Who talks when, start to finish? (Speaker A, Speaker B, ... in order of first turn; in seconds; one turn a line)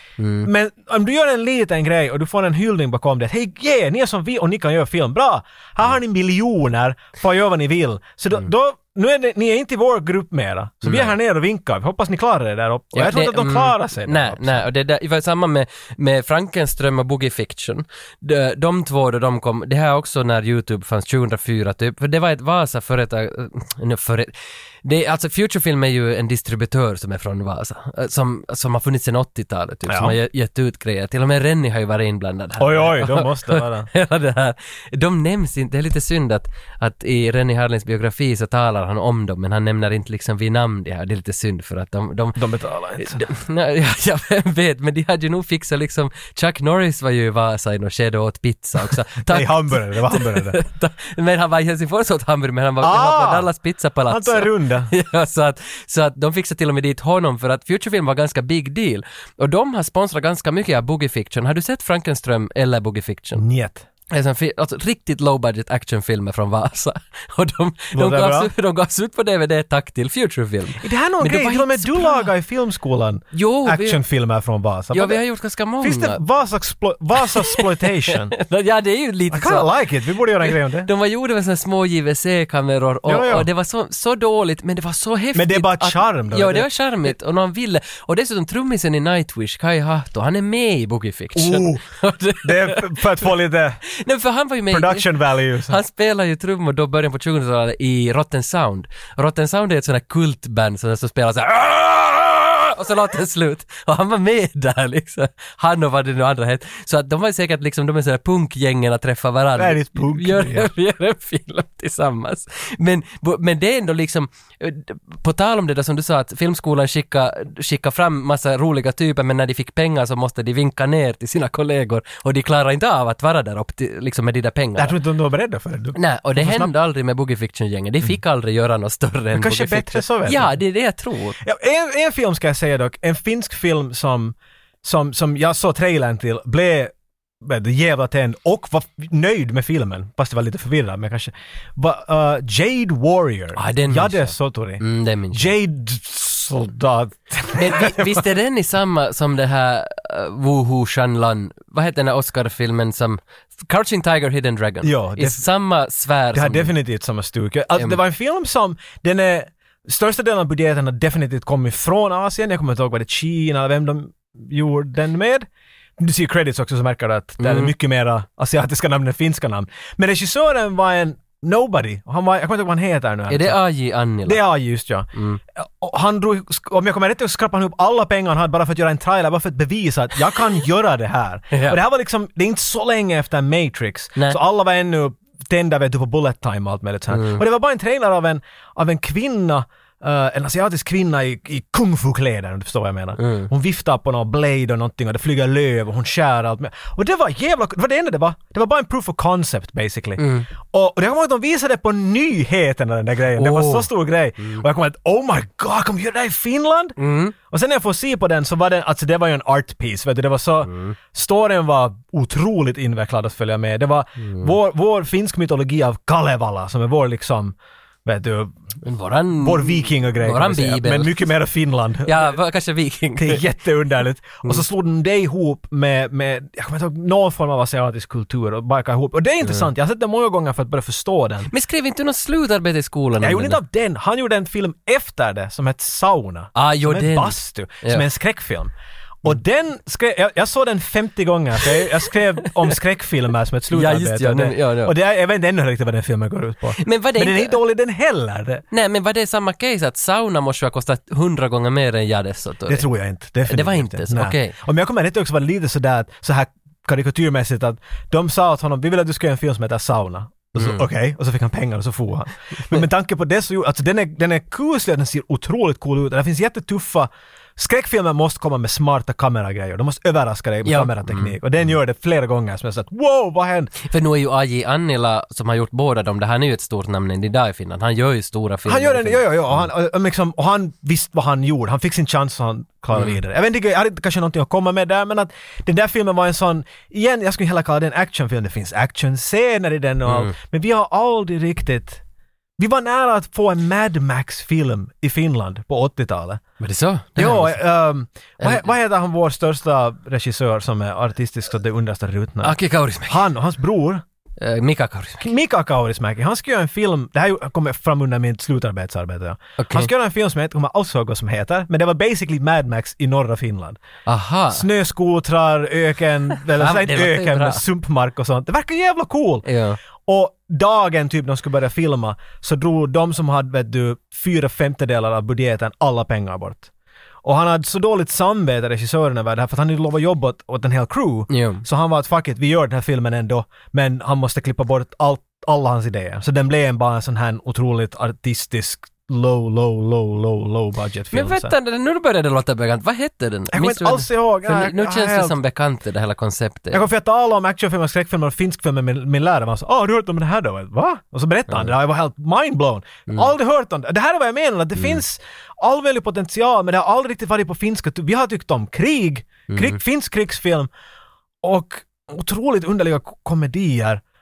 Speaker A: 0.2-0.5
Speaker B: 0.4-14.6
Speaker A: 10.8-11.1
Speaker A: 12.9-24.3
Speaker A: 24.8-42.4
Speaker B: 29.9-30.1
Speaker B: 32.6-33.9
Speaker B: 42.4-43.2
Speaker A: 43.0-63.4
Speaker B: 49.3-50.6
Speaker B: 52.8-53.5
Speaker B: 54.1-54.9
Speaker B: 63.4-63.9
Speaker A: 64.1-72.3
Speaker B: 67.9-68.5
Speaker B: 70.8-75.2
Speaker A: 73.3-74.0
Speaker A: 74.9-76.2
Speaker B: 75.8-78.3
Speaker A: 77.2-77.6
Speaker A: 78.1-79.7
Speaker B: 79.3-80.9
Speaker A: 80.4-93.0
Speaker B: 83.0-83.5
Speaker B: 85.3-87.1
Speaker B: 91.3-91.8
Speaker B: 92.4-93.8
Speaker A: 93.9-95.1
Speaker B: 94.7-95.8
Speaker A: 95.7-125.0
Speaker B: 109.5-110.7
Speaker B: 124.8-126.7
Speaker A: 125.9-131.4
Speaker B: 129.3-130.6
Speaker B: 131.4-148.2
Speaker A: 143.6-145.5
Speaker A: 147.5-156.7
Speaker B: 154.8-155.4
Speaker B: 156.3-165.5
Speaker B: 166.0-173.6
Speaker A: 167.4-167.7
Speaker A: 173.3-174.4
Speaker B: 174.2-207.0
Speaker A: 181.5-181.8
Speaker A: 187.1-187.4
Speaker A: 193.2-193.5
Speaker A: 200.2-200.5
Speaker A: 203.3-203.9
Speaker A: 207.0-207.3
Speaker B: 207.5-218.6
Speaker A: 210.7-210.9
Speaker A: 214.2-214.5
Speaker A: 218.8-221.3
Speaker B: 219.4-222.3
Speaker A: 222.1-223.4
Speaker B: 223.2-231.5
Speaker A: 231.5-233.6
Speaker B: 233.2-248.6
Speaker A: 236.6-238.0
Speaker A: 243.7-244.9
Speaker A: 246.8-247.6
Speaker A: 248.7-252.9
Speaker B: 252.7-273.7
Speaker A: 253.5-254.6
Speaker A: 260.6-260.8
Speaker A: 270.6-271.4
Speaker A: 273.8-279.6
Speaker B: 278.6-292.0
Speaker A: 290.1-290.3
Speaker B: 292.6-296.4
Speaker A: 296.6-297.6
Speaker B: 297.2-304.0
Speaker A: 298.4-298.7
Speaker A: 302.4-303.2
Speaker A: 304.4-305.2
Speaker B: 305.2-313.8
Speaker A: 309.6-309.9
Speaker A: 314.1-314.6
Speaker B: 314.5-319.4
Speaker A: 316.5-317.6
Speaker A: 319.4-319.8
Speaker B: 320.0-326.7
Speaker B: 327.2-341.5
Speaker A: 331.3-331.6
Speaker A: 341.1-346.8
Speaker B: 343.5-345.4
Speaker B: 346.7-360.7
Speaker A: 359.5-359.8
Speaker B: 361.4-364.0